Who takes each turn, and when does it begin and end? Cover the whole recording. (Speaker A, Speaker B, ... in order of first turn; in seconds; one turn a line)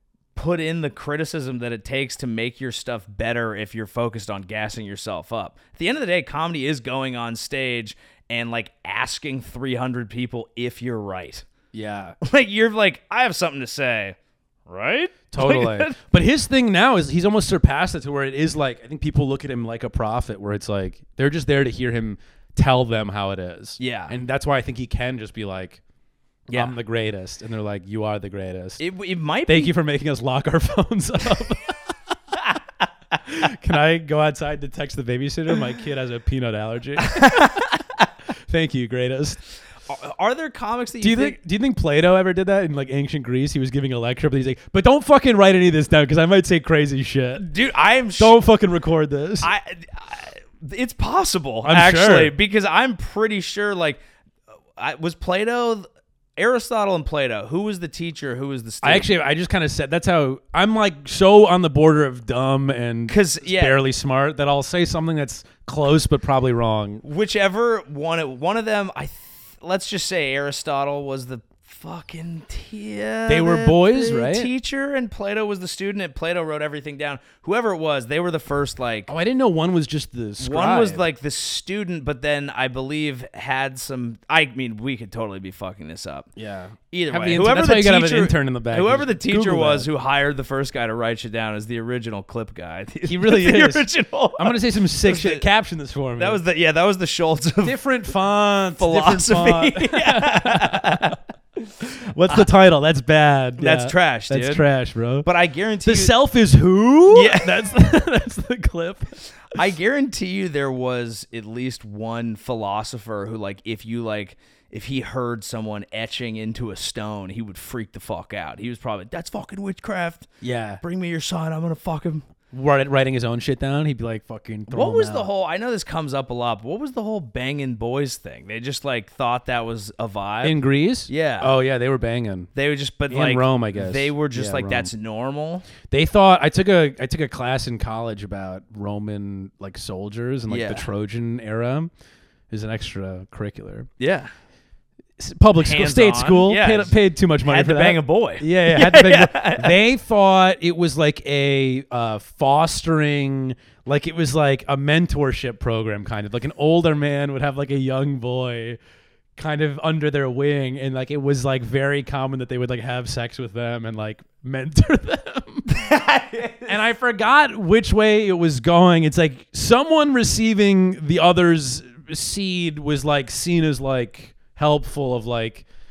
Speaker A: 0.3-11.5
Speaker B: 11.7-12.2
Speaker A: 12.2-14.2
Speaker A: 14.7-16.0
Speaker B: 15.3-25.8
Speaker A: 23.8-24.1
Speaker A: 26.5-26.8
Speaker B: 26.5-28.8
Speaker A: 28.8-29.7
Speaker B: 29.5-31.8
Speaker B: 33.3-37.7
Speaker A: 37.0-37.7
Speaker B: 38.5-39.4
Speaker A: 39.9-41.4
Speaker B: 41.0-47.5
Speaker A: 47.4-48.4
Speaker B: 48.2-49.5
Speaker A: 49.4-54.0
Speaker B: 51.6-52.3
Speaker A: 54.8-55.9
Speaker A: 56.4-59.1
Speaker B: 58.8-67.0
Speaker A: 63.1-63.8
Speaker A: 67.0-79.1
Speaker B: 73.3-74.5
Speaker B: 79.1-81.0
Speaker A: 80.4-86.3
Speaker B: 86.4-89.9
Speaker A: 86.9-95.5
Speaker B: 93.0-96.4
Speaker A: 96.2-97.8
Speaker B: 97.6-101.2
Speaker A: 98.8-102.5
Speaker B: 102.1-105.3
Speaker A: 103.6-104.7
Speaker A: 105.2-106.1
Speaker B: 105.8-109.1
Speaker A: 107.1-107.7
Speaker A: 109.5-122.2
Speaker B: 120.4-120.8
Speaker B: 122.5-125.3
Speaker A: 124.7-131.5
Speaker B: 130.4-132.5
Speaker A: 132.6-135.7
Speaker B: 133.1-134.9
Speaker B: 135.9-141.9
Speaker A: 140.5-140.9
Speaker B: 142.5-143.9
Speaker A: 144.0-144.3
Speaker B: 145.2-158.8
Speaker A: 145.6-149.8
Speaker B: 159.4-165.7
Speaker A: 165.7-166.8
Speaker B: 166.7-175.7